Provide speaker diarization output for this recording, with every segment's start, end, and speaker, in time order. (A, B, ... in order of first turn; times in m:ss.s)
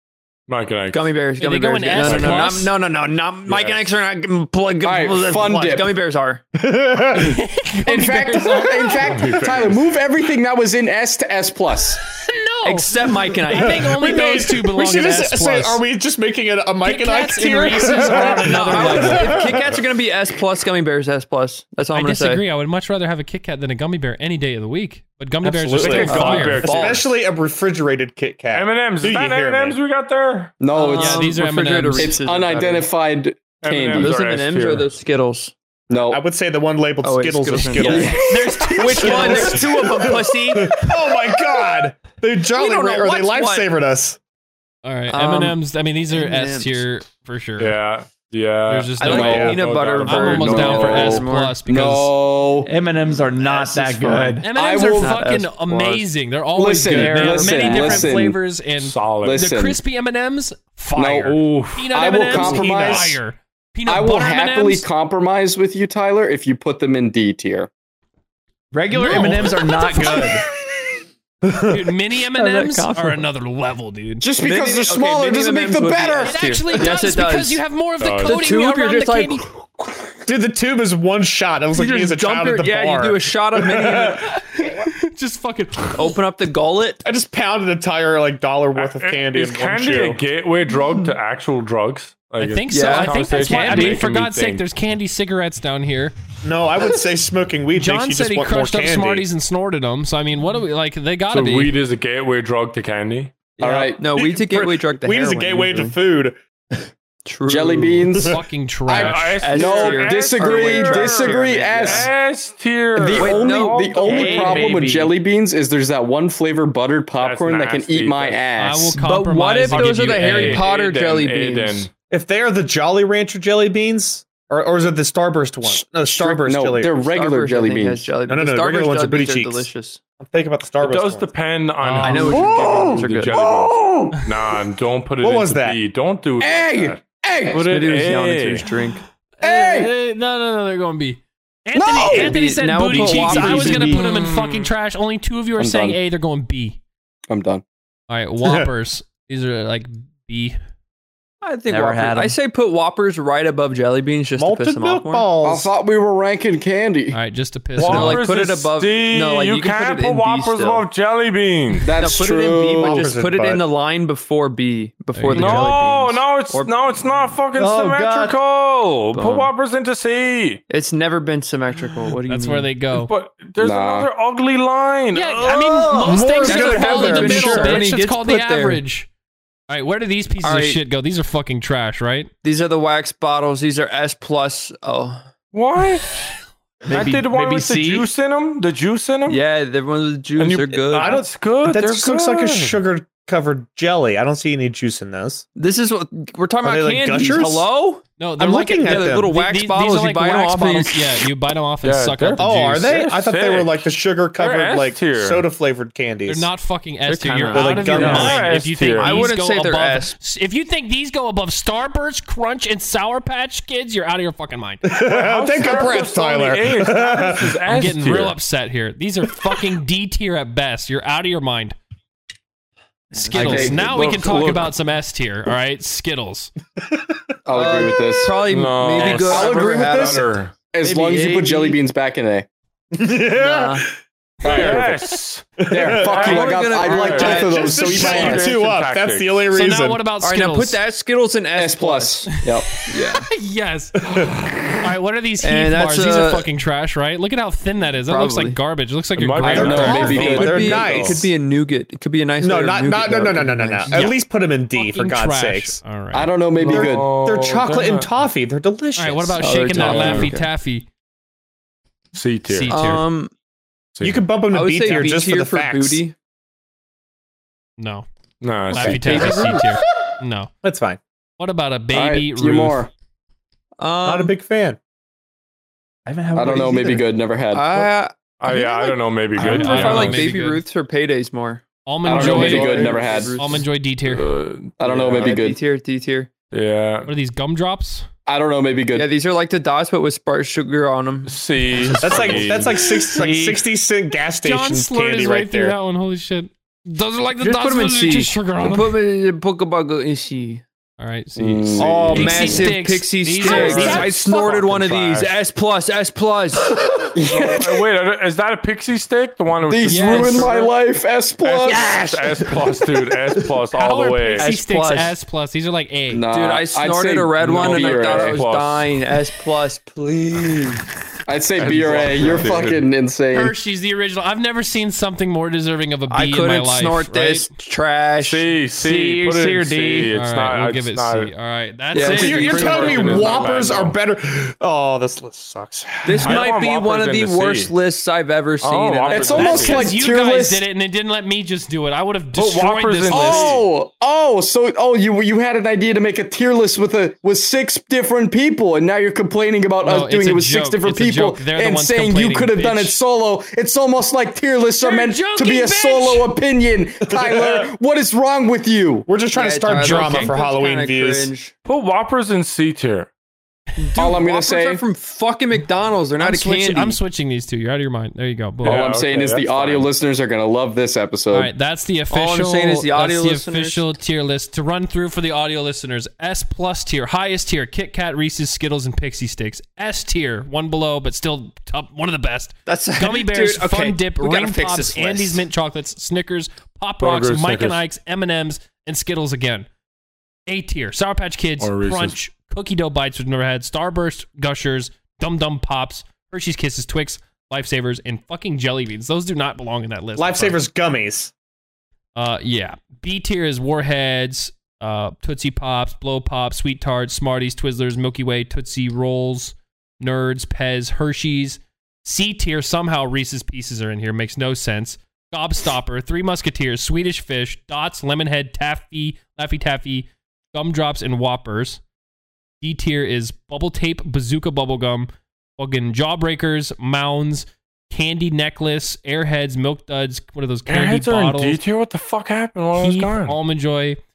0:00.5-0:01.1 A
0:00.9-0:06.4 B
0:01.4-0:02.7 C
0:02.0-0:02.6 A
0:03.5-0:03.8 A
0:04.8-0:05.9 D
0:06.6-0:07.4 E
0:07.1-0:09.2 C
0:07.9-0:12.0 D
0:09.0-0:09.9 A
0:12.2-0:15.8 C
0:12.6-0:14.0 B
0:13.5-0:19.8 E
0:16.8-0:19.4 C
0:17.9-0:22.4 B
0:21.9-0:26.7 C
0:25.4-0:29.8 E
0:25.8-0:27.1 A
0:26.1-0:27.0 B
0:28.5-0:30.6 A
0:30.6-0:31.3 D
0:30.7-0:32.9 B
0:31.0-0:32.2 C
0:32.0-0:34.1 D
0:33.6-0:34.9 A
0:33.9-0:35.5 B
0:35.9-0:36.2 D
0:35.9-0:44.2 E
0:37.0-0:40.9 B
0:37.8-0:38.7 D
0:37.9-0:39.9 C
0:42.5-0:43.7 B
0:44.8-0:47.8 C
0:45.1-0:45.6 B
0:46.1-0:46.8 B
0:47.6-0:51.1 A
0:48.7-0:52.1 C
0:49.0-0:51.6 B
0:49.1-0:49.6 D
0:49.3-0:49.6 E
0:50.3-0:52.7 D
0:52.6-0:54.5 F
0:53.4-0:54.3 B
0:53.8-0:55.2 D
0:54.4-1:04.9 C
0:55.0-0:56.0 B
0:56.6-0:58.4 D
0:56.9-0:58.0 F
0:58.8-0:59.4 A
0:59.2-0:59.8 D
1:01.0-1:01.4 D
1:01.3-1:02.0 A
1:01.9-1:03.2 D
1:02.3-1:03.2 E
1:03.9-1:07.7 D
1:08.7-1:10.4 F
1:08.9-1:10.4 C
1:11.4-1:11.8 E
1:11.7-1:14.3 C
1:12.3-1:13.2 B
1:14.2-1:16.4 D
1:14.4-1:17.6 B
1:16.2-1:19.4 C
1:18.0-1:18.4 A
1:18.2-1:19.6 B
1:20.2-1:24.4 E
1:21.7-1:24.4 B
1:24.6-1:26.1 C
1:25.9-1:27.0 B
1:27.0-1:30.2 E
1:28.7-1:34.6 A
1:32.4-1:36.2 C
1:32.7-1:34.0 B
1:36.4-1:39.3 E
1:37.7-1:41.7 C
1:41.3-1:43.4 A
1:43.6-1:44.0 D
1:43.6-1:46.8 E
1:44.0-1:46.0 B
1:47.3-1:48.1 B
1:47.5-1:52.1 D
1:48.3-1:49.4 C
1:48.9-1:54.7 A
1:49.4-1:52.1 B
1:53.0-1:59.0 D
1:53.2-1:54.6 B
1:54.0-1:55.1 F
1:57.2-1:58.4 A
1:58.6-2:00.6 C
1:59.0-2:01.9 B
1:59.7-2:01.9 A
2:02.1-2:07.0 E
2:06.2-2:08.1 D
2:07.1-2:10.0 B
2:08.3-2:09.7 E
2:10.2-2:11.3 E
2:10.8-2:18.7 A
2:11.8-2:12.4 C
2:12.0-2:13.5 B
2:12.3-2:14.2 D
2:15.2-2:15.8 E
2:16.4-2:17.7 D
2:17.7-2:19.0 B
2:19.4-2:26.8 C
2:19.4-2:19.9 D
2:21.7-2:22.4 D
2:22.1-2:24.0 B
2:22.9-2:24.7 A
2:25.6-2:26.0 D
2:27.3-2:27.6 D
2:28.1-2:30.6 C
2:31.4-2:35.3 B
2:31.7-2:32.4 F
2:34.4-2:35.7 E
2:35.4-2:37.2 D
2:37.1-2:38.3 C
2:37.8-2:41.9 A
2:37.8-2:40.8 B
2:41.8-2:43.1 D
2:42.0-2:46.7 B
2:42.8-2:43.6 E
2:45.1-2:45.7 C
2:45.3-2:50.6 A
2:47.6-2:48.3 E
2:49.1-2:49.5 B
2:50.7-2:52.7 B
2:52.3-2:53.1 C
2:52.9-2:56.5 A
2:53.6-2:54.1 D
2:55.1-2:59.1 C
2:56.0-2:57.8 E
2:56.4-2:58.8 B
2:59.7-3:02.3 C
3:00.4-3:00.8 B
3:02.4-3:05.3 B
3:05.5-3:06.1 A
3:06.9-3:08.1 F
3:06.9-3:09.4 A
3:09.3-3:11.2 B
3:10.4-3:12.8 A
3:10.9-3:15.4 E
3:15.6-3:18.0 B
3:16.6-3:17.7 E
3:18.2-3:22.8 C
3:18.4-3:19.3 E
3:18.8-3:21.2 B
3:21.8-3:23.8 A
3:22.4-3:26.5 E
3:24.4-3:25.4 A
3:26.3-3:34.9 C
3:27.1-3:28.4 B
3:27.5-3:28.5 E
3:27.9-3:29.3 A
3:28.0-3:28.3 F
3:29.0-3:30.1 B
3:34.8-3:37.6 E
3:35.0-3:38.4 A
3:37.7-3:41.8 C
3:43.1-3:43.8 B
3:43.2-3:43.9 F
3:43.2-3:46.5 C
3:43.3-3:44.6 D
3:47.4-3:48.4 D
3:47.5-3:50.3 B
3:48.4-3:50.6 A
3:49.0-3:52.4 D
3:50.8-3:51.8 B
3:52.9-3:53.9 E
3:53.4-3:53.9 B
3:54.4-3:55.0 D
3:54.4-3:55.5 A
3:55.6-4:00.0 E
3:55.7-3:58.5 D
3:56.0-3:59.5 A
3:56.1-3:57.8 B
3:59.5-4:00.8 C
4:00.2-4:02.3 B
4:01.6-4:02.7 D
4:02.4-4:04.3 C
4:02.9-4:03.3 B
4:04.0-4:04.4 E
4:04.8-4:10.4 C
4:05.4-4:06.5 B
4:08.0-4:08.6 B
4:09.1-4:11.2 A
4:09.5-4:10.8 D
4:09.5-4:11.3 E
4:09.5-4:14.0 B
4:12.4-4:15.8 E
4:13.9-4:14.2 C
4:14.7-4:16.3 C
4:16.1-4:17.1 D
4:16.6-4:19.9 E
4:16.6-4:18.1 A
4:19.0-4:20.9 C
4:19.4-4:20.5 B
4:19.8-4:20.3 A
4:22.1-4:22.8 A
4:22.5-4:23.0 C
4:22.7-4:23.3 B
4:24.0-4:24.3 A
4:24.0-4:26.0 E
4:24.5-4:26.1 B
4:27.8-4:28.0 C
4:28.4-4:29.5 A
4:28.7-4:30.5 C
4:28.8-4:29.7 B
4:30.6-4:31.0 E
4:31.4-4:32.9 C
4:31.9-4:32.9 D
4:33.8-4:34.3 B
4:34.0-4:34.8 E
4:36.0-4:37.0 F
4:36.3-4:37.9 D
4:37.5-4:43.6 B
4:38.4-4:40.4 A
4:39.4-4:40.6 C
4:41.9-4:44.3 C
4:42.0-4:43.4 D
4:44.0-4:45.4 A
4:44.8-4:45.6 D
4:45.1-4:46.3 B
4:46.5-4:47.1 A
4:47.0-4:48.0 C
4:48.3-4:49.1 D
4:49.0-4:51.4 B
4:51.3-4:53.0 A
4:51.8-4:52.6 F
4:52.0-4:55.8 E
4:53.1-4:53.6 F
4:54.4-4:59.0 C
4:57.4-5:00.6 B
5:01.0-5:04.1 C
5:01.4-5:02.7 D
5:01.8-5:06.8 B
5:01.8-5:02.4 A
5:03.4-5:05.4 A
5:07.1-5:07.8 D
5:07.2-5:10.7 A
5:09.7-5:11.9 D
5:09.9-5:10.6 C
5:11.4-5:14.5 A
5:11.6-5:12.6 B
5:13.7-5:16.2 C
5:14.4-5:15.1 B
5:16.1-5:18.4 D
5:16.3-5:20.8 B
5:17.4-5:19.0 A
5:21.3-5:23.6 D
5:21.6-5:22.9 A
5:21.9-5:22.4 B
5:23.3-5:27.5 C
5:26.1-5:28.6 B
5:28.2-5:31.3 A
5:28.7-5:30.1 F
5:30.1-5:33.6 C
5:31.9-5:33.4 B
5:32.0-5:34.0 A
5:32.0-5:36.4 E
5:36.0-5:39.9 B
5:36.2-5:37.7 A
5:38.6-5:40.0 A
5:39.1-5:40.6 D
5:39.4-5:43.6 C
5:42.4-5:43.6 A
5:43.1-5:59.1 D
5:49.8-5:53.0 C
5:54.8-5:56.3 C
5:57.2-5:57.7 E
5:59.1-6:01.3 E
5:59.3-6:01.5 B
5:59.8-6:00.4 C
6:01.7-6:03.1 A
6:03.8-6:07.0 B
6:04.0-6:04.8 D
6:06.2-6:08.9 C
6:08.6-6:09.9 A
6:08.6-6:11.5 D
6:11.3-6:29.7 C
6:12.1-6:13.9 B
6:22.7-6:25.4 B
6:27.0-6:27.8 A
6:30.5-6:40.6 C
6:31.6-6:32.2 A
6:40.2-6:41.3 E
6:42.1-7:01.8 C
7:02.6-7:11.6 C
7:10.7-7:13.4 A
7:12.7-7:14.0 C